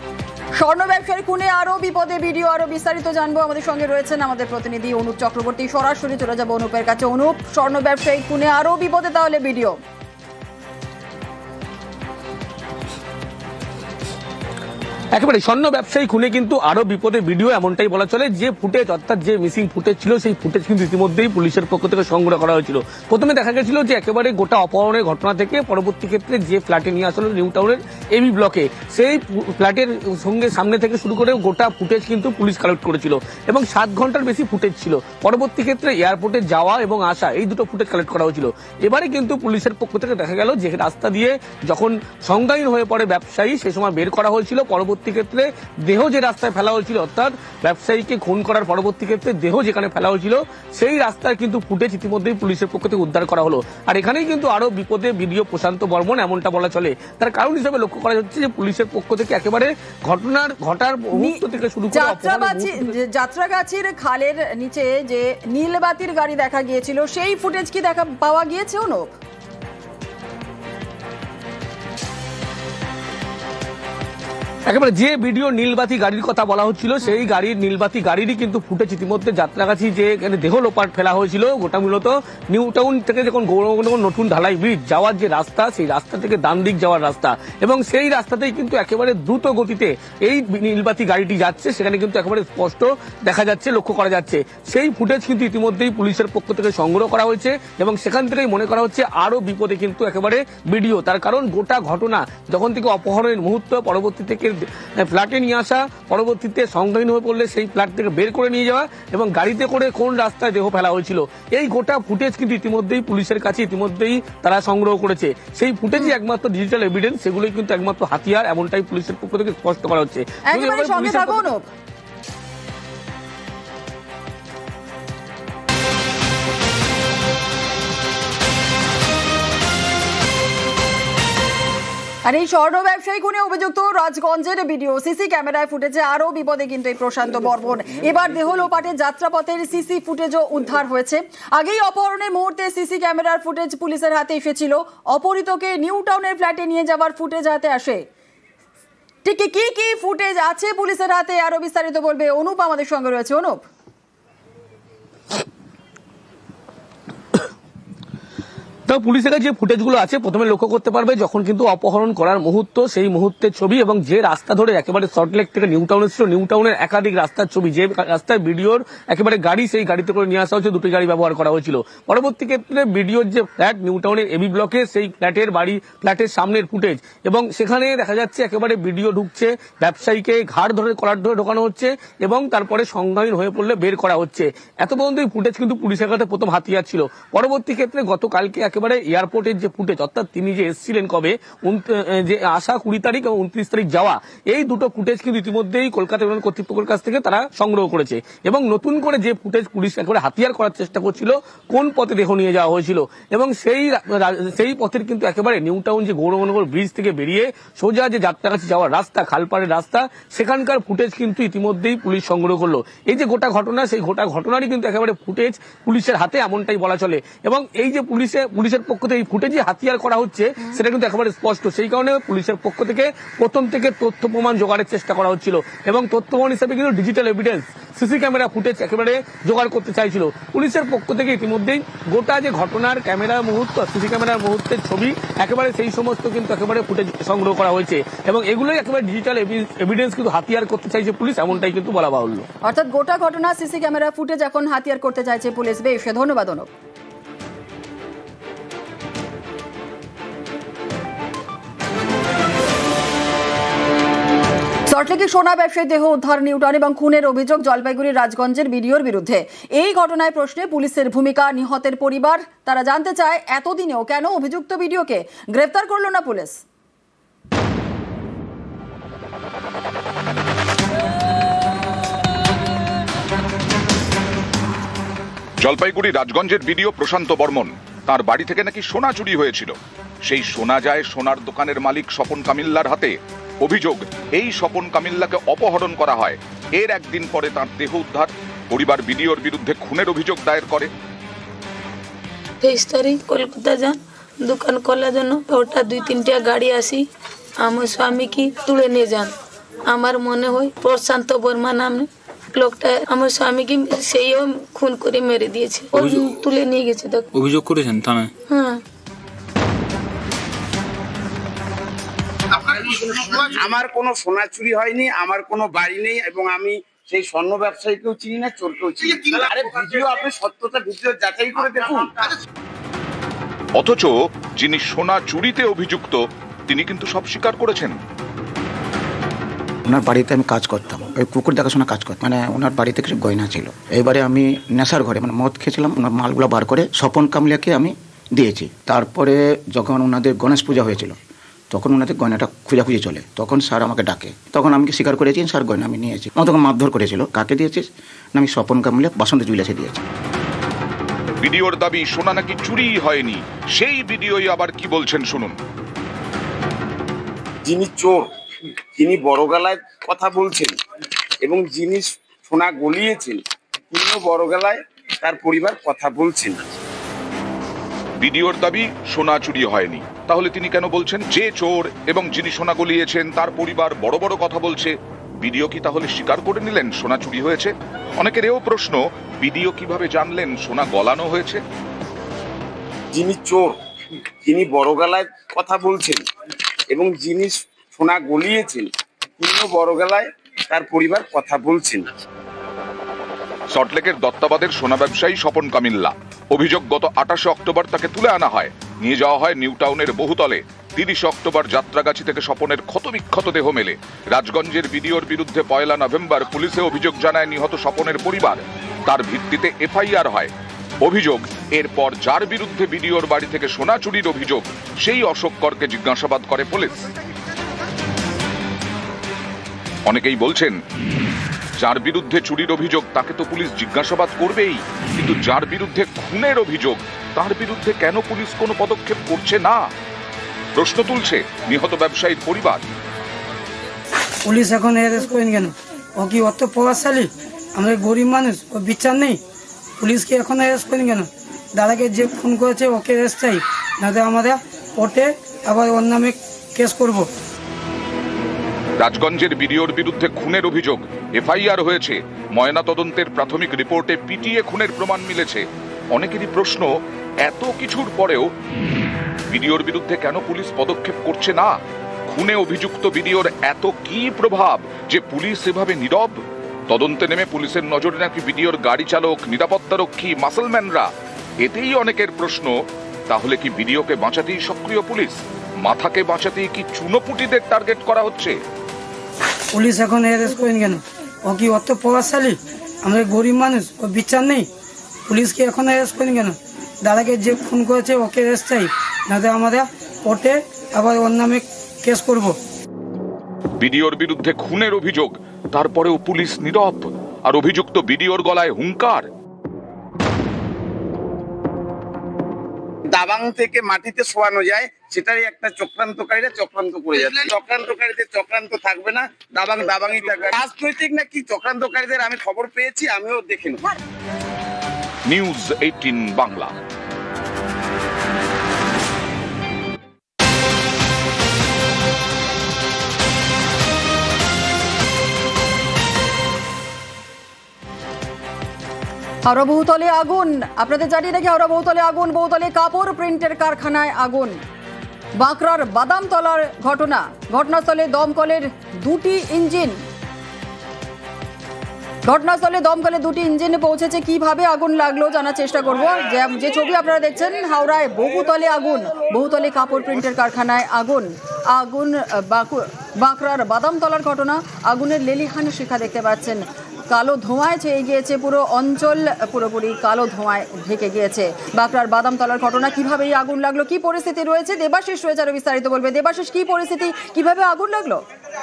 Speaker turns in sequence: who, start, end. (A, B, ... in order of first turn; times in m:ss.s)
0:00.6-0:09.8 A
0:15.1-1:03.0 B
1:01.2-1:09.2 A
1:14.7-2:01.5 B
2:00.5-2:01.6 A
2:12.2-2:28.0 A
2:29.2-2:33.7 A
2:38.9-4:02.5 B
4:02.6-4:06.7 A
4:14.9-4:26.6 A
4:35.6-4:39.7 C
4:40.2-4:50.9 C
4:52.6-4:57.1 D
4:57.6-4:59.3 D
4:59.9-5:07.4 D
5:08.4-5:08.8 D
5:12.6-5:22.3 E
5:23.8-5:28.0 C
5:29.9-5:41.2 F
5:41.7-5:50.0 F
5:51.4-5:55.6 C
5:57.6-5:58.2 E
5:59.0-6:00.8 E
6:01.4-6:06.6 E
6:08.2-6:21.6 C
6:23.1-6:23.7 E
6:24.4-6:26.2 E
6:26.9-6:32.1 E
6:33.7-6:50.5 C
6:51.0-6:57.0 C
7:00.1-7:00.8 C
7:01.8-7:09.8 C
7:10.8-7:12.8 C
7:14.5-7:19.4 G
7:20.0-7:27.3 G
7:29.0-7:36.9 C
7:37.4-7:38.5 C
7:39.5-7:41.8 C
7:42.3-7:46.4 C
7:46.9-7:51.1 C
7:51.6-7:52.7 C
7:53.3-7:58.6 C
7:59.7-8:04.7 G
8:05.3-8:12.6 G
8:13.8-8:19.3 C
8:23.1-8:34.0 E
8:35.3-8:36.7 C
8:49.4-8:54.6 A
8:55.4-9:00.0 A
9:02.2-9:28.2 A